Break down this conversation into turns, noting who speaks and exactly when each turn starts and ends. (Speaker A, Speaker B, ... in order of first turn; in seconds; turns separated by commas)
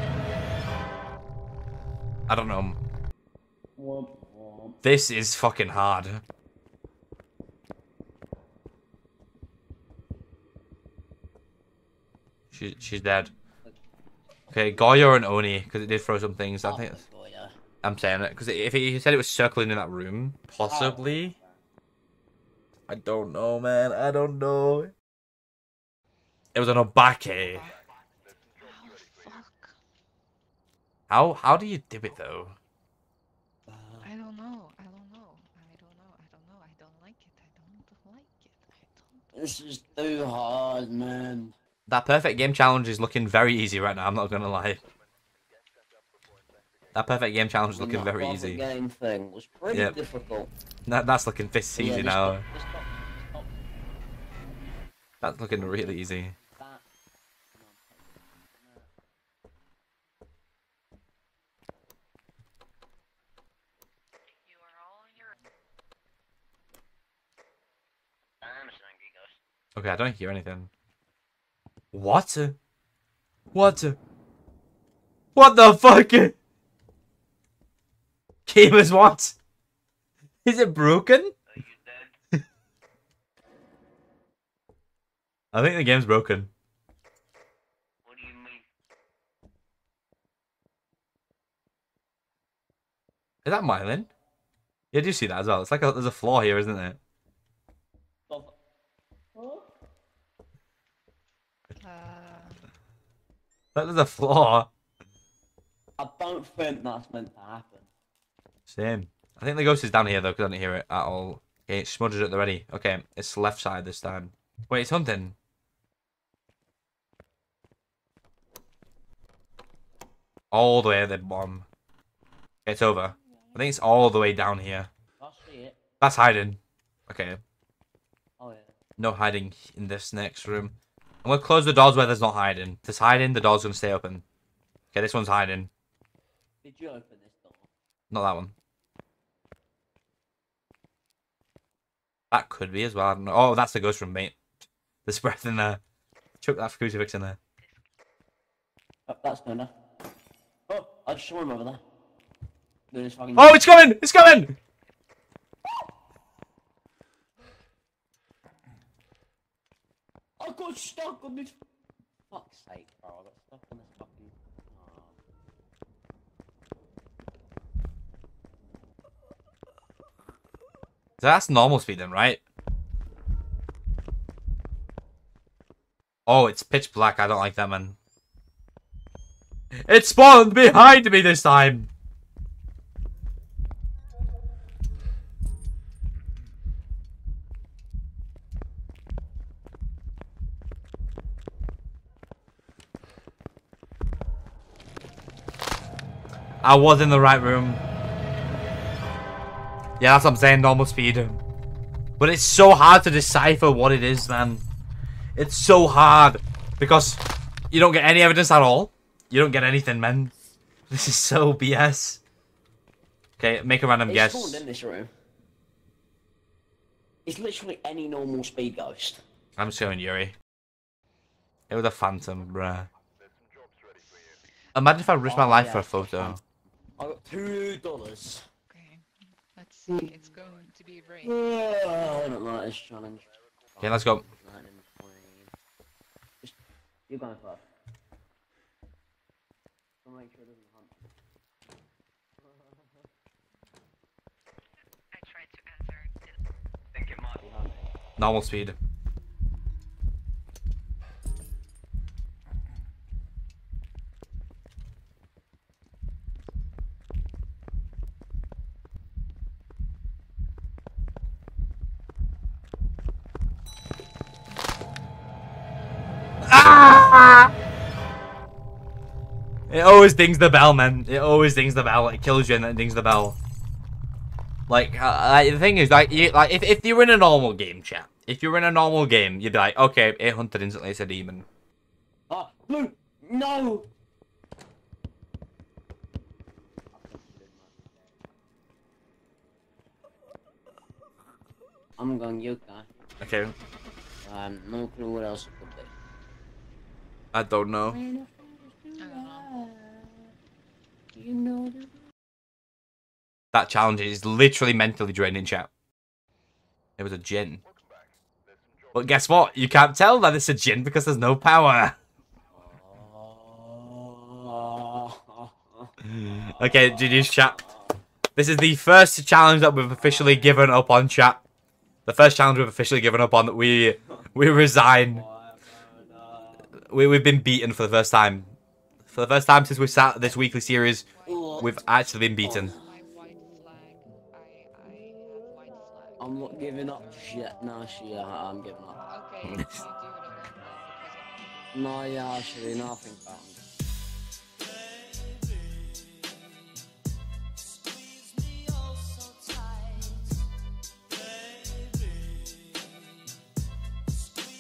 Speaker A: 2.3-2.8, Speaker B: 3.8-4.8, Speaker A: 4.8-6.2, Speaker A: 12.5-13.3, Speaker A: 14.5-17.1, Speaker B: 16.6-17.6, Speaker A: 17.8-21.4, Speaker B: 20.6-21.4, Speaker A: 22.9-24.9, Speaker A: 26.6-27.7, Speaker C: 27.2-27.8, Speaker C: 28.5-29.8, Speaker A: 31.1-32.6, Speaker C: 34.0-39.3, Speaker B: 39.3-41.5, Speaker A: 41.9-44.8, Speaker A: 46.9-48.6, Speaker B: 47.7-50.5, Speaker C: 49.9-50.3, Speaker A: 50.9-52.5, Speaker B: 51.8-53.6, Speaker A: 55.2-56.4, Speaker B: 55.6-56.9, Speaker B: 57.5-58.9, Speaker C: 64.5-65.4, Speaker B: 68.4-69.4, Speaker A: 69.8-70.7, Speaker A: 71.9-72.6, Speaker A: 73.5-74.0, Speaker A: 75.3-76.3, Speaker A: 78.5-79.3, Speaker A: 80.5-81.4, Speaker B: 81.5-82.1, Speaker A: 85.5-86.5, Speaker B: 88.0-88.7, Speaker A: 93.4-94.1, Speaker A: 94.9-97.0, Speaker B: 98.3-98.6, Speaker B: 99.3-99.7, Speaker C: 101.8-102.6, Speaker A: 103.8-104.7, Speaker B: 106.0-107.9, Speaker A: 108.7-115.3, Speaker A: 120.5-121.7, Speaker A: 122.7-124.9, Speaker B: 125.2-125.8, Speaker A: 126.0-127.4, Speaker B: 128.4-128.8, Speaker A: 129.0-134.2, Speaker A: 134.9-135.7, Speaker B: 136.6-137.7, Speaker A: 138.1-138.5, Speaker A: 142.3-144.4, Speaker A: 145.1-145.8, Speaker A: 146.4-147.4, Speaker B: 149.1-149.7, Speaker B: 150.7-151.8, Speaker B: 152.9-153.7, Speaker A: 153.3-154.6, Speaker B: 160.4-161.6, Speaker B: 162.3-165.2, Speaker A: 171.2-172.4, Speaker A: 176.3-178.0, Speaker A: 179.9-181.9, Speaker A: 196.6-197.8, Speaker A: 200.0-201.4, Speaker A: 202.2-204.7, Speaker A: 205.4-207.2, Speaker A: 207.7-210.3, Speaker A: 210.9-212.2, Speaker A: 213.4-214.7, Speaker B: 214.1-215.1, Speaker B: 217.3-219.2, Speaker A: 219.6-220.4, Speaker A: 221.7-222.9, Speaker A: 224.8-226.4, Speaker B: 225.2-226.4, Speaker B: 227.0-228.4, Speaker C: 228.7-231.4, Speaker B: 229.9-230.2, Speaker B: 231.2-235.5, Speaker A: 233.8-234.2, Speaker B: 237.1-237.6, Speaker B: 240.0-241.1, Speaker B: 242.4-243.1, Speaker C: 245.1-246.3, Speaker B: 246.9-247.9, Speaker A: 248.2-248.8, Speaker A: 266.4-267.5, Speaker A: 269.7-273.4, Speaker A: 274.7-281.5, Speaker B: 282.3-283.9, Speaker B: 286.9-288.2, Speaker B: 292.0-292.9, Speaker A: 293.2-293.5, Speaker B: 294.2-295.9, Speaker A: 297.3-298.0, Speaker B: 297.9-300.3, Speaker C: 299.0-299.5, Speaker B: 301.1-301.9, Speaker A: 303.5-305.7, Speaker A: 307.0-307.6, Speaker A: 308.9-312.0, Speaker B: 312.6-318.0, Speaker A: 316.0-317.6, Speaker A: 318.4-321.4, Speaker B: 319.9-320.7, Speaker A: 322.1-325.2, Speaker B: 325.1-326.7, Speaker A: 326.9-328.6, Speaker A: 329.1-331.1, Speaker C: 330.4-337.5, Speaker B: 331.3-331.8, Speaker A: 331.6-332.7, Speaker B: 332.4-332.8, Speaker B: 336.2-339.0, Speaker C: 339.0-342.0, Speaker A: 339.4-339.8, Speaker B: 341.7-343.7, Speaker B: 349.5-350.1